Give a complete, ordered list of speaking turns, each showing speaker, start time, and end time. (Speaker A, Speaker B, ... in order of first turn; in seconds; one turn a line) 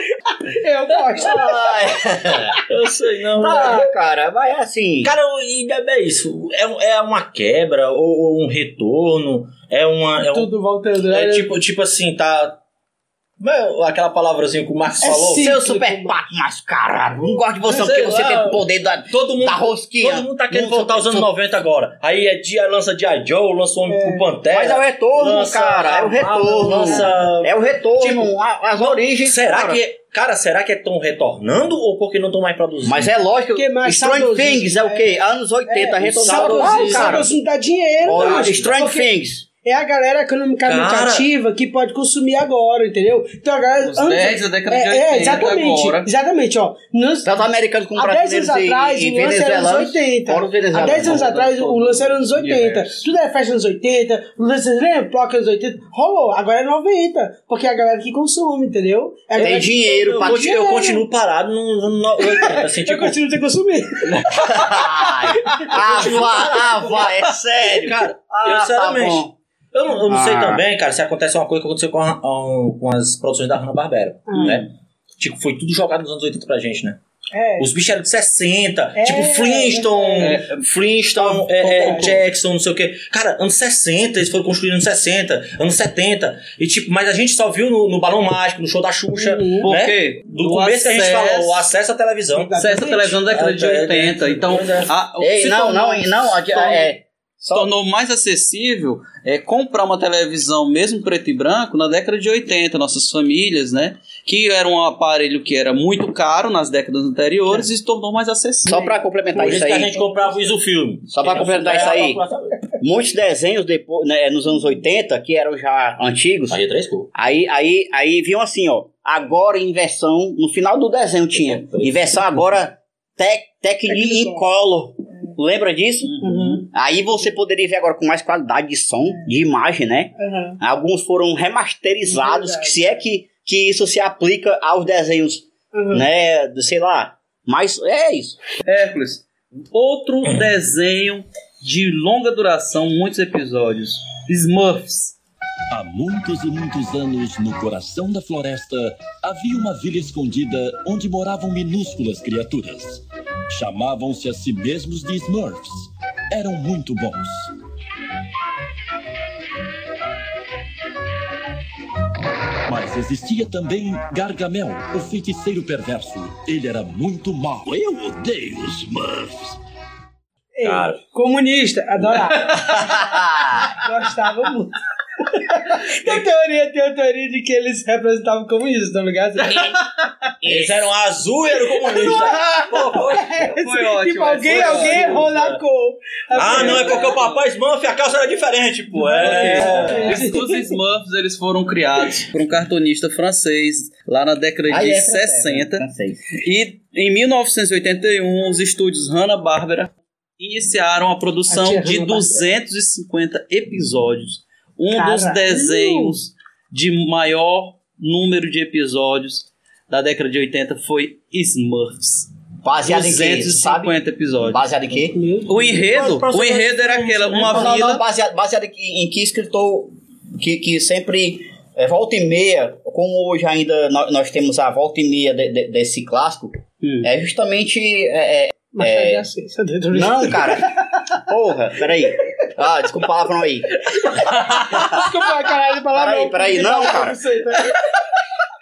Speaker A: 0.2-1.7
Speaker B: 1.1-2.5
Speaker C: 2.2-3.9
Speaker B: 3.4-5.1
Speaker A: 3.4-3.9
Speaker C: 5.0-12.6
Speaker A: 10.3-11.5
Speaker C: 13.4-15.5
Speaker A: 15.0-16.1
Speaker B: 15.3-21.3
Speaker C: 17.6-33.2
Speaker A: 23.9-24.2
Speaker B: 24.5-29.8
Speaker B: 32.9-37.3
Speaker A: 33.5-39.1
Speaker C: 36.2-37.3
Speaker B: 38.0-39.5
Speaker C: 38.1-38.8
Speaker A: 39.6-47.4
Speaker C: 40.6-41.3
Speaker D: 43.8-46.1
Speaker B: 47.2-51.3
Speaker A: 47.9-61.0
Speaker D: 50.9-53.0
Speaker C: 59.4-63.2
Speaker B: 59.4-60.6
Speaker A: 62.2-64.8
Speaker B: 64.5-69.3
Speaker A: 65.5-66.1
Speaker C: 65.6-67.1
Speaker C: 67.7-77.0
Speaker B: 70.1-70.6
Speaker A: 74.3-74.5
Speaker A: 77.3-77.7
Speaker C: 77.6-92.6
Speaker A: 79.0-80.3
Speaker D: 80.2-80.6
Speaker A: 81.2-82.2
Speaker A: 89.1-89.7
Speaker D: 89.6-91.7
Speaker A: 92.3-93.2
Speaker D: 92.6-96.9
Speaker C: 93.2-94.9
Speaker B: 95.2-97.7
Speaker D: 97.5-108.7
Speaker B: 108.7-110.0
Speaker C: 109.3-112.6
Speaker B: 111.1-112.2
Speaker B: 112.8-116.6
Speaker C: 116.5-117.1
Speaker B: 117.1-138.4
Speaker C: 121.4-122.2
Speaker A: 123.9-124.4
Speaker C: 126.2-126.6
Speaker A: 126.2-126.6
Speaker A: 130.2-130.6
Speaker A: 132.0-132.8
Speaker A: 135.7-136.0
Speaker D: 138.6-145.1
Speaker E: 145.7-153.0
Speaker E: 153.5-157.5
Speaker E: 162.7-169.5
Speaker A: 170.5-173.0
Speaker C: 170.6-171.0
Speaker B: 172.8-173.7
Speaker A: 173.7-174.7
Speaker A: 175.3-179.8
Speaker B: 180.4-180.8
Speaker C: 180.4-183.4
Speaker A: 181.9-187.2
Speaker D: 183.6-185.2
Speaker C: 184.5-185.6
Speaker C: 186.3-190.2
Speaker D: 186.5-186.8
Speaker D: 189.1-195.8
Speaker A: 189.1-190.7
Speaker B: 194.7-196.3
Speaker D: 196.4-212.3
Speaker A: 201.5-202.4
Speaker A: 204.9-206.2
Speaker B: 212.6-215.2
Speaker D: 212.8-214.7
Speaker A: 215.1-215.6
Speaker D: 215.5-218.0
Speaker C: 215.5-218.0
Speaker B: 217.4-229.2
Speaker D: 226.8-227.1
Speaker A: 228.7-230.6
Speaker B: 229.9-235.0
Speaker A: 234.5-237.8
Speaker B: 235.9-237.2